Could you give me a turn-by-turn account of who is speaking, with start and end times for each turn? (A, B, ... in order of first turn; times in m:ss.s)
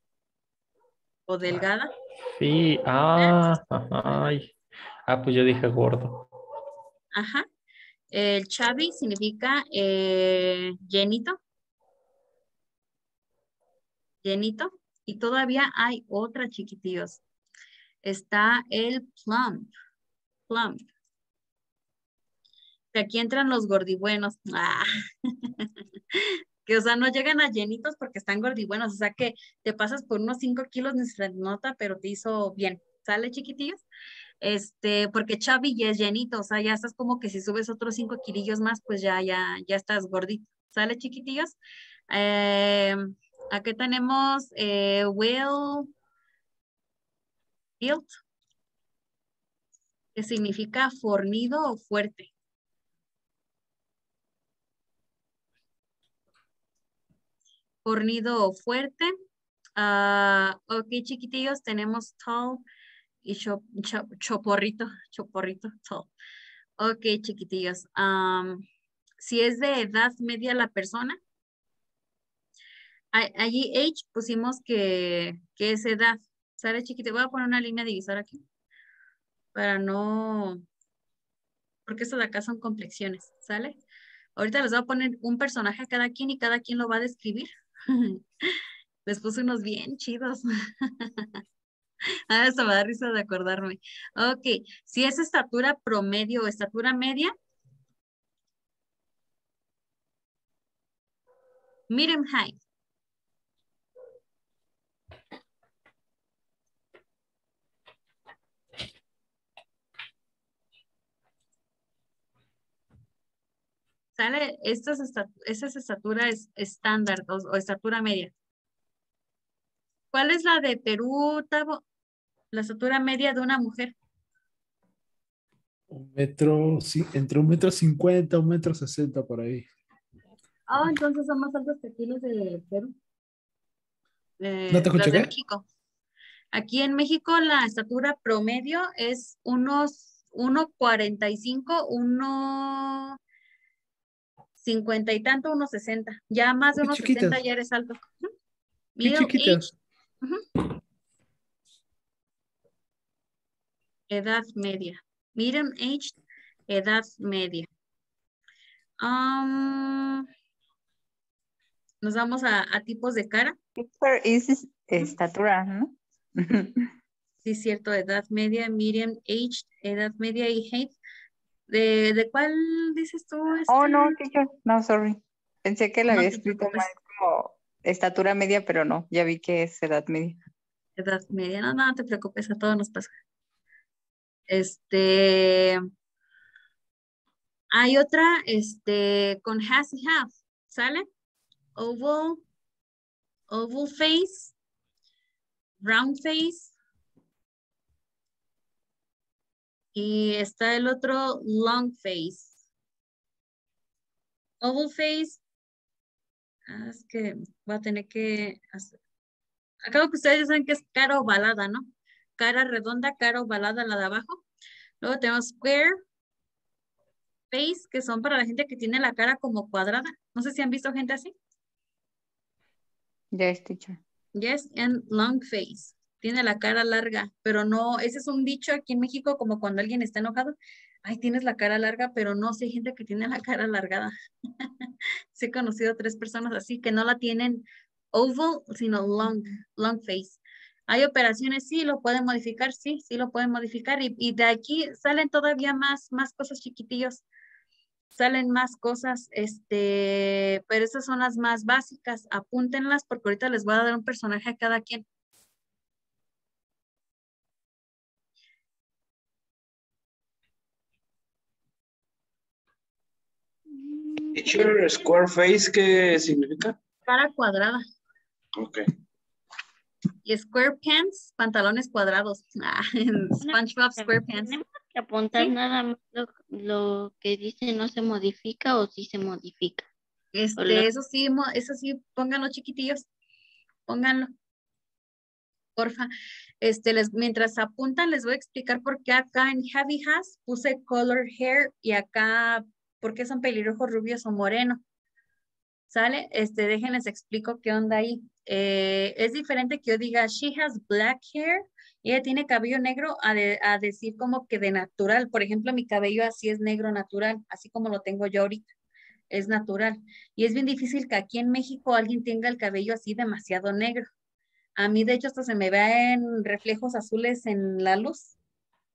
0:01.3-0:01.9 A
0:02.3-0:04.5 B
0:05.1-0:06.3 B
0:07.1-0:07.4 A
0:08.1-0:11.4 A
0:14.2-0:17.2 A
0:18.0-0:19.7 A
0:20.5-0:20.8 A
0:22.9-0:24.9 A
0:25.4-0:33.8 A
0:34.4-0:41.6 A
0:42.1-0:45.9 A
0:47.8-0:48.1 A
0:50.2-0:52.3 A
0:57.8-0:59.1 A
0:59.8-1:02.6 A
1:03.2-1:06.1 A
1:06.8-1:08.6 A
1:09.2-1:11.2 A
1:13.1-1:18.4 A
1:19.5-1:20.6 A
1:21.8-1:23.8 A
1:24.4-1:28.2 A
1:29.0-1:31.3 A
1:32.3-1:37.3 A
1:41.9-1:42.5 A
1:54.2-1:58.3 A
2:00.1-2:01.8 A
2:02.5-2:03.9 A
2:05.9-2:09.6 C
2:10.7-2:12.9 A
2:14.4-2:15.6 A
2:14.7-2:15.3 C
2:16.5-2:23.2 A
2:24.6-2:28.0 A
2:26.8-2:27.4 C
2:29.0-2:29.6 A
2:29.0-2:29.7 C
2:34.1-2:36.2 A
2:36.7-2:37.7 A
2:39.0-2:40.2 A
2:42.0-2:43.5 A
2:43.8-2:46.9 D
2:47.4-2:50.9 A
2:51.7-2:54.2 A
2:53.7-3:00.4 D
2:56.1-2:56.9 A
3:01.0-3:03.1 A
3:04.5-3:05.8 A
3:07.7-3:11.0 A
3:11.8-3:12.4 A
3:13.5-3:14.5 A
3:15.8-3:16.7 A
3:19.9-3:22.5 A
3:24.6-3:25.4 A
3:26.7-3:28.9 A
3:29.8-3:31.8 A
3:32.4-3:34.4 A
3:35.0-3:36.0 A
3:37.5-3:41.3 A
3:43.3-3:44.0 D
3:44.4-3:54.1 A
3:55.3-4:07.2 A
4:08.1-4:15.0 A
4:23.7-4:25.0 E
4:24.4-4:26.7 F
4:27.1-4:27.8 A
4:28.6-4:28.8 F
4:30.2-4:34.5 A
4:33.4-4:39.9 E
4:40.3-4:43.0 A
4:40.6-4:40.9 E
4:43.9-4:44.3 A
4:45.8-4:46.1 A
4:46.6-4:54.8 A
4:55.9-5:08.7 A
5:09.3-5:14.1 A
5:14.8-5:18.3 A